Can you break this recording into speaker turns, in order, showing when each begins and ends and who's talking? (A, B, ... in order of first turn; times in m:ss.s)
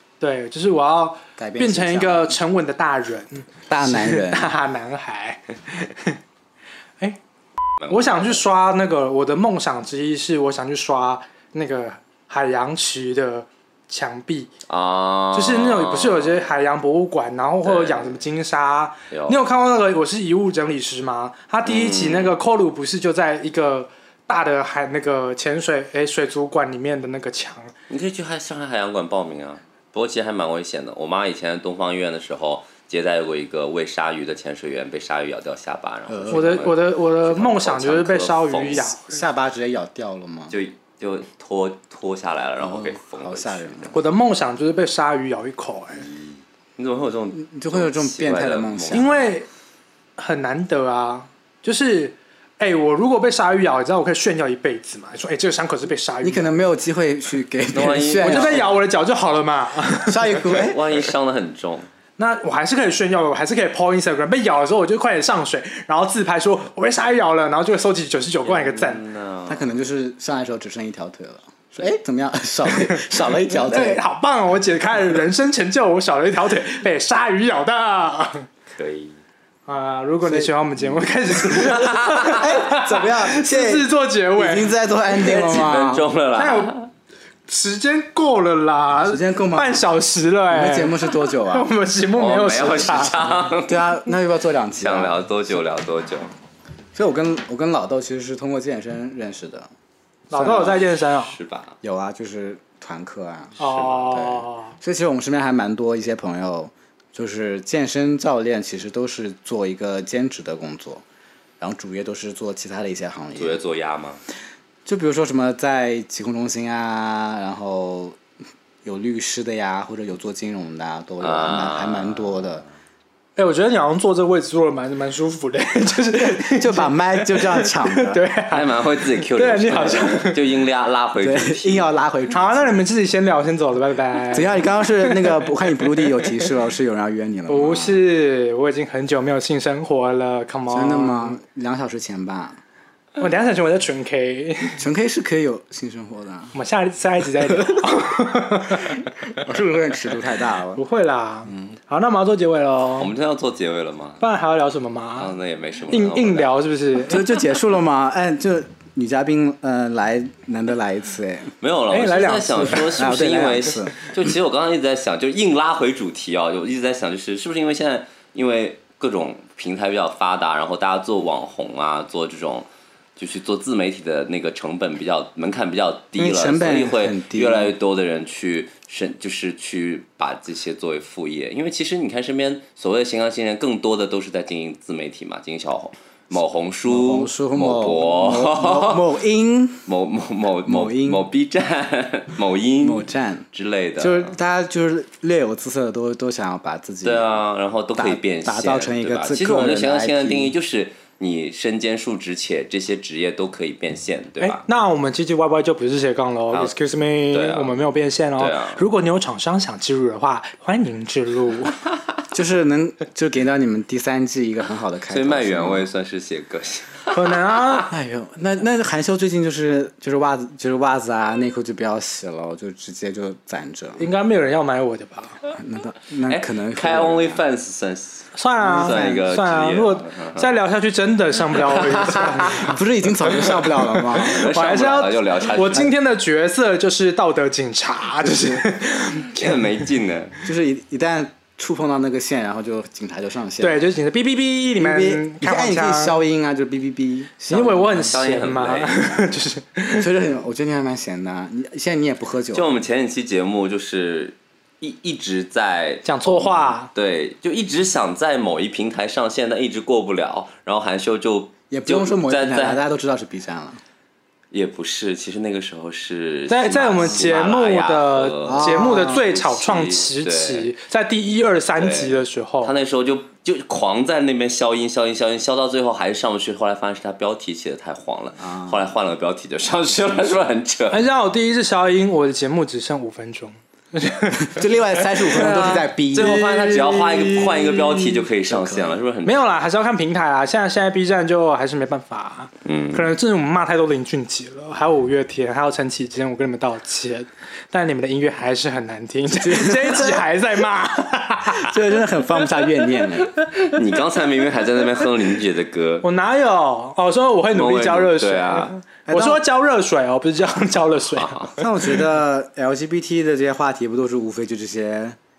0:00.2-0:06.2 A
0:01.4-0:02.4 B
0:03.7-0:04.5 B
0:07.8-0:08.4 C
0:07.9-0:14.5 A
0:14.7-0:16.4 C
0:15.3-0:27.7 A
0:17.6-0:18.2 C
0:19.1-0:19.4 C
0:21.6-0:22.4 C
0:27.9-0:39.0 C
0:36.1-0:36.6 B
0:36.3-0:39.2 A
0:39.0-0:40.6 B
0:40.5-0:44.0 C
0:42.6-0:44.0 B
0:43.9-0:46.1 A
0:46.0-0:49.2 C
0:47.3-0:49.1 B
0:48.9-0:49.5 A
0:50.2-0:56.6 A
0:56.2-0:58.8 B
0:57.7-0:58.7 C
0:58.2-1:00.4 A
1:00.1-1:01.0 B
1:00.4-1:01.9 C
1:02.2-1:09.0 A
1:08.4-1:09.7 C
1:09.5-1:14.0 B
1:12.9-1:18.5 A
1:18.7-1:19.2 C
1:19.7-1:24.7 A
1:20.2-1:26.1 B
1:21.6-1:22.3 C
1:25.2-1:26.9 C
1:26.3-1:26.7 A
1:27.5-1:33.3 A
1:29.1-1:29.8 B
1:30.5-1:31.7 B
1:32.2-1:33.9 C
1:33.6-1:35.2 B
1:34.8-1:36.3 C
1:36.9-1:39.7 B
1:40.3-1:41.4 A
1:40.3-1:40.8 B
1:41.2-1:41.8 C
1:41.8-1:51.0 B
1:43.6-1:44.7 A
1:43.6-1:43.9 C
1:51.6-1:53.6 B
1:53.4-1:54.2 C
1:54.9-1:58.2 B
1:58.8-2:02.6 B
2:01.2-2:02.6 C
2:03.4-2:10.4 A
2:06.2-2:08.2 B
2:08.5-2:11.9 C
2:11.2-2:12.7 B
2:12.3-2:16.4 A
2:14.3-2:18.0 B
2:17.5-2:21.4 A
2:20.7-2:22.6 B
2:23.2-2:24.8 A
2:24.8-2:26.5 B
2:26.5-2:29.0 A
2:29.4-2:30.8 B
2:30.8-2:33.1 A
2:31.5-2:31.7 B
2:33.0-2:34.2 C
2:34.2-2:35.3 A
2:35.2-2:36.5 C
2:35.9-2:37.2 A
2:37.1-2:41.5 B
2:41.6-3:09.1 C
2:41.9-2:42.9 A
2:42.7-2:44.0 B
2:56.2-2:57.7 B
3:06.9-3:09.9 B
3:09.9-3:14.4 C
3:10.6-3:11.3 B
3:12.8-3:13.5 B
3:14.0-3:17.3 B
3:17.0-3:24.6 C
3:18.0-3:20.5 B
3:24.4-3:31.8 A
3:27.3-3:27.8 C
3:28.4-3:28.8 C
3:32.3-3:35.9 B
3:35.1-3:37.4 C
3:37.1-3:37.9 A
3:37.9-3:44.1 B
3:44.0-3:45.4 A
3:45.5-3:47.4 B
3:46.3-3:50.5 C
3:48.4-3:52.8 A
3:48.6-3:49.2 B
3:51.6-3:52.7 C
3:52.6-3:54.4 B
3:54.1-3:55.9 C
3:54.3-3:59.6 A
3:58.2-3:58.6 B
3:59.3-4:00.4 C
4:00.4-4:03.8 B
4:03.6-4:06.2 A
4:04.8-4:08.2 B
4:07.5-4:10.1 A
4:07.9-4:09.3 C
4:09.9-4:12.7 B
4:12.5-4:22.8 C
4:16.1-4:16.9 A
4:21.7-4:23.8 B
4:24.5-4:30.7 C
4:26.5-4:32.7 A
4:28.4-4:29.2 B
4:31.8-4:41.0 C
4:38.4-4:38.9 B
4:40.9-4:44.6 A
4:44.4-4:46.9 B
4:45.2-4:48.2 A
4:45.3-4:49.5 C
4:48.4-4:49.0 B
4:49.2-5:01.8 A
4:52.6-4:53.1 C
4:59.4-5:00.3 B
5:01.4-5:03.3 B
5:02.4-5:03.8 A
5:03.7-5:06.1 C
5:06.0-5:12.0 A
5:07.5-5:08.8 C
5:09.1-5:09.4 B
5:11.1-5:11.6 C
5:11.6-5:15.2 B